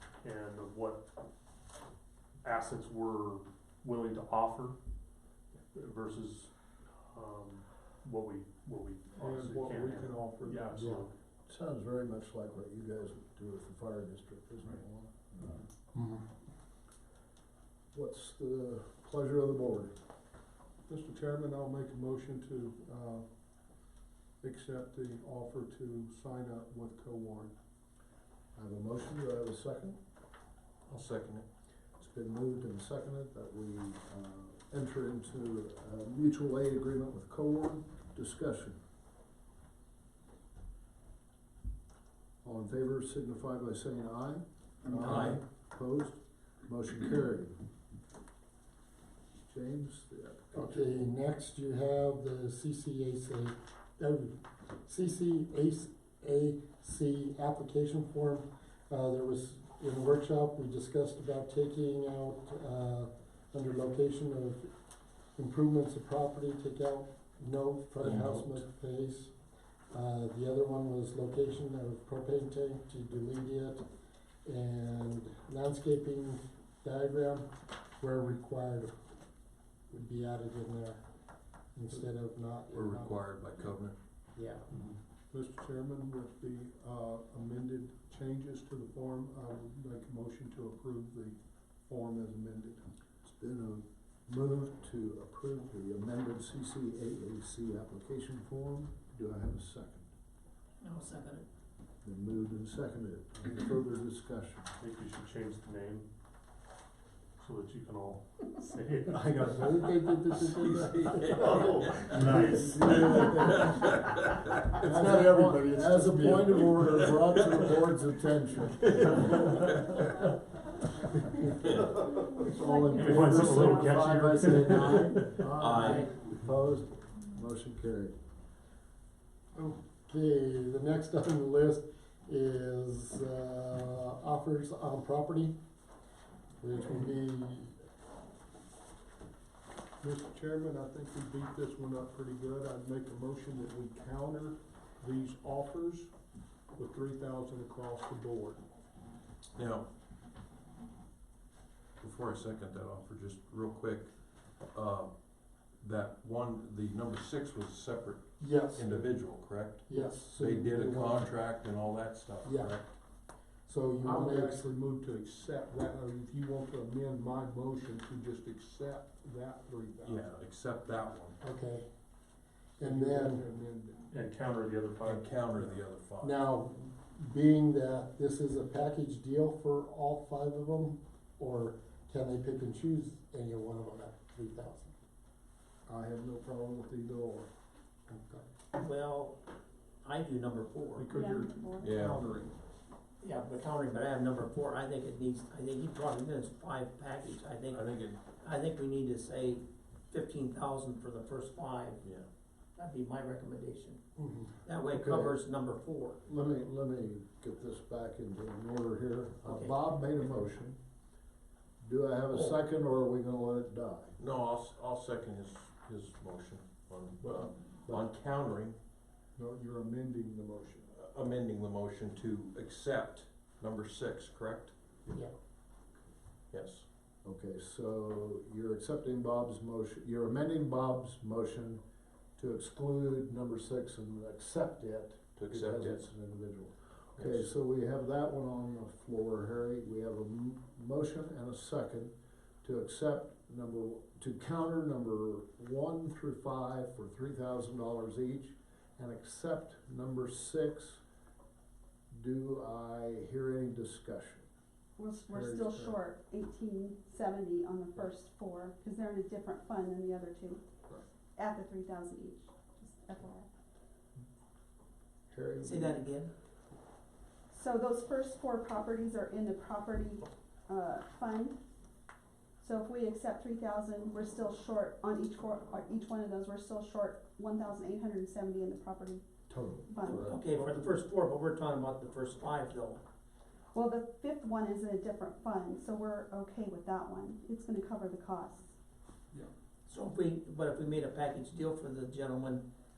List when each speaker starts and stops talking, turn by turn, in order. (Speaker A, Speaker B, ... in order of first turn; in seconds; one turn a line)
Speaker A: 0.2-1.0
Speaker A: 2.4-4.8
Speaker A: 5.7-6.5
Speaker A: 7.1-11.1
Speaker B: 9.2-11.0
Speaker C: 11.5-15.5
Speaker D: 15.9-16.2
Speaker C: 17.9-19.9
Speaker B: 20.9-23.3
Speaker B: 24.4-27.5
Speaker C: 28.6-30.0
Speaker E: 30.9-31.4
Speaker C: 32.0-38.8
Speaker C: 42.4-47.5
Speaker F: 44.9-45.4
Speaker C: 49.5-51.0
Speaker D: 50.5-64.7
Speaker D: 65.4-69.3
Speaker E: 68.0-68.6
Speaker D: 69.9-73.8
Speaker D: 74.5-79.0
Speaker D: 79.9-81.0
Speaker D: 81.7-83.2
Speaker E: 82.7-84.0
Speaker F: 84.4-84.6
Speaker B: 85.3-92.9
Speaker C: 93.2-100.1
Speaker F: 100.8-101.5
Speaker C: 102.0-104.7
Speaker A: 104.8-106.1
Speaker A: 107.4-110.2
Speaker D: 109.3-111.6
Speaker E: 110.3-114.6
Speaker A: 111.4-113.0
Speaker D: 112.2-113.6
Speaker C: 112.5-113.7
Speaker D: 114.7-117.1
Speaker C: 114.8-119.3
Speaker C: 122.0-128.1
Speaker G: 122.5-123.9
Speaker A: 122.9-125.4
Speaker E: 125.6-126.1
Speaker F: 125.8-126.1
Speaker D: 130.1-135.5
Speaker D: 136.6-137.8
Speaker B: 140.0-146.1
Speaker B: 146.8-148.6
Speaker E: 149.6-149.9
Speaker E: 152.0-154.1
Speaker E: 154.7-155.1
Speaker E: 155.8-162.9
Speaker D: 158.4-159.1
Speaker D: 159.9-161.3
Speaker B: 159.9-160.2
Speaker D: 162.4-162.8
Speaker D: 163.7-164.7
Speaker B: 164.0-170.3
Speaker E: 170.0-171.4
Speaker D: 171.4-171.9
Speaker D: 172.8-173.4
Speaker B: 172.8-174.2
Speaker A: 174.1-175.8
Speaker E: 175.0-176.4
Speaker D: 176.2-184.9
Speaker B: 185.9-187.5
Speaker D: 188.1-188.4
Speaker F: 188.8-189.4
Speaker F: 190.0-191.1
Speaker B: 191.0-192.6
Speaker G: 191.1-192.0
Speaker E: 191.8-192.3
Speaker F: 193.2-202.0
Speaker E: 197.7-198.2
Speaker E: 202.0-202.3
Speaker F: 202.8-204.0
Speaker D: 204.2-204.5
Speaker F: 204.7-206.5
Speaker C: 204.9-205.4
Speaker C: 206.2-210.8
Speaker F: 209.4-209.8
Speaker C: 211.8-214.1
Speaker F: 212.3-212.6
Speaker E: 214.2-218.8
Speaker B: 217.2-217.5
Speaker B: 219.4-220.9
Speaker E: 220.9-224.7
Speaker E: 226.5-226.8
Speaker C: 227.2-231.8
Speaker C: 232.4-251.0
Speaker E: 235.4-236.1
Speaker E: 237.2-237.5
Speaker C: 252.1-254.5
Speaker G: 255.0-260.6
Speaker B: 255.3-256.0
Speaker G: 261.4-263.6
Speaker F: 265.6-266.3
Speaker G: 267.5-271.6
Speaker G: 272.6-279.3
Speaker C: 279.5-280.4
Speaker G: 279.9-280.2
Speaker F: 280.0-283.0
Speaker G: 283.7-288.7
Speaker F: 289.9-292.6